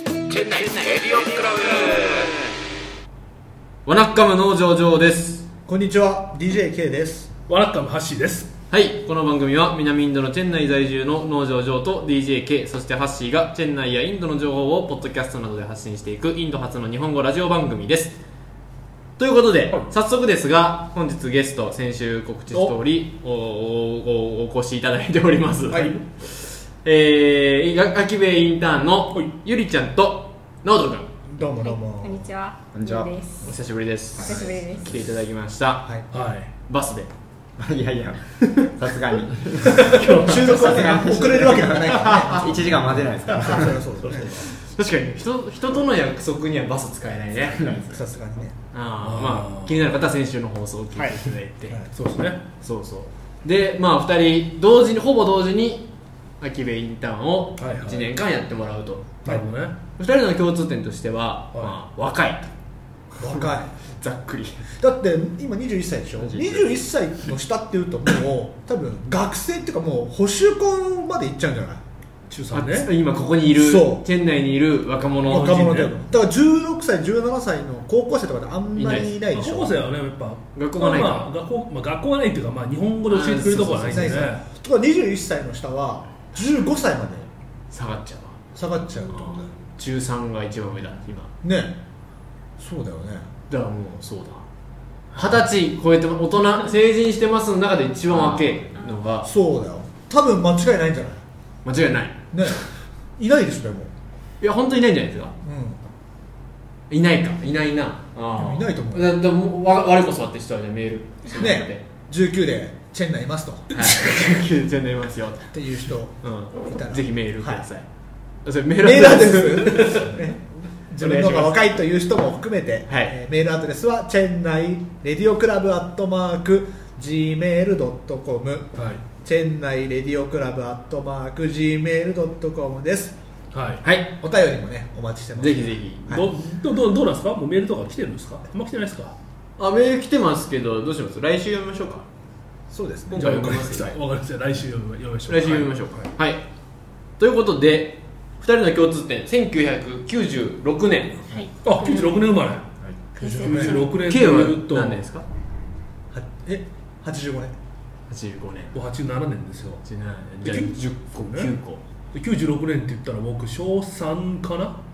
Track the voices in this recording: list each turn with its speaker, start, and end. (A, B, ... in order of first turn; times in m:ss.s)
0:00.5-0:01.8 A
0:03.9-0:05.5 A
0:05.7-0:07.3 B
0:07.5-0:08.5 C
0:08.7-0:18.2 A
0:19.2-0:31.1 A
0:25.7-0:26.0 B
0:31.3-0:32.3 B
0:31.6-0:33.5 D
0:32.7-0:33.5 E
0:33.4-0:35.9 A
0:34.2-0:35.1 E
0:34.3-0:34.9 D
0:36.1-0:36.5 C
0:36.7-0:37.1 A
0:37.6-0:43.8 E
0:38.4-0:38.7 A
0:39.7-0:42.6 A
0:40.2-0:44.4 B
0:43.8-0:44.3 C
0:44.6-0:47.7 A
0:47.5-0:48.0 E
0:47.9-0:48.6 B
0:48.7-0:51.8 A
0:49.0-0:49.8 C
0:51.0-0:51.9 B
0:51.9-0:52.4 C
0:52.6-0:55.9 A
0:56.4-0:59.4 A
0:57.6-0:58.1 C
0:59.2-0:59.8 C
1:00.0-1:02.5 A
1:03.2-1:03.7 B
1:04.0-1:04.7 A
1:04.7-1:11.8 B
1:06.2-1:06.8 E
1:12.3-1:12.9 C
1:12.5-1:15.6 A
1:13.6-1:14.0 B
1:15.3-1:19.8 B
1:15.3-1:16.0 C
1:18.8-1:19.1 A
1:19.3-1:24.4 C
1:20.6-1:21.3 A
1:23.1-1:24.1 A
1:23.8-1:27.3 B
1:27.7-1:28.4 A
1:28.6-1:29.5 B
1:29.1-1:31.3 A
1:31.4-1:31.8 B
1:32.6-1:33.3 B
1:33.5-1:34.5 A
1:35.2-1:35.4 B
1:35.2-1:39.3 A
1:38.1-1:38.5 B
1:39.2-1:41.2 B
1:41.6-1:42.6 A
1:42.3-1:42.7 B
1:43.2-1:43.9 B
1:44.4-1:45.4 A
1:45.4-1:45.8 B
1:46.9-1:51.8 A
1:48.4-1:49.2 B
1:51.4-1:54.1 B
1:53.7-1:55.5 A
1:55.5-1:57.6 B
1:56.2-1:57.8 A
1:58.4-2:00.3 A
1:58.8-2:13.2 B
2:01.0-2:01.6 A
2:02.9-2:03.1 A
2:08.8-2:09.0 C
2:13.5-2:13.8 C
2:13.8-2:14.1 A
2:14.1-2:16.3 B
2:15.4-2:16.2 A
2:16.1-2:19.2 C
2:19.6-2:22.1 A
2:22.7-2:23.9 B
2:23.1-2:24.0 A
2:23.2-2:26.1 C
2:25.3-2:26.4 A
2:27.2-2:31.2 A
2:31.3-2:32.3 D
2:31.6-2:32.6 C
2:33.2-2:33.9 B
2:33.2-2:33.9 D
2:33.4-2:35.0 C
2:34.0-2:35.2 A
2:36.1-2:37.5 B
2:38.1-2:38.8 A
2:38.7-2:39.8 C
2:39.8-2:41.8 A
2:40.4-2:41.5 C
2:42.1-2:44.8 C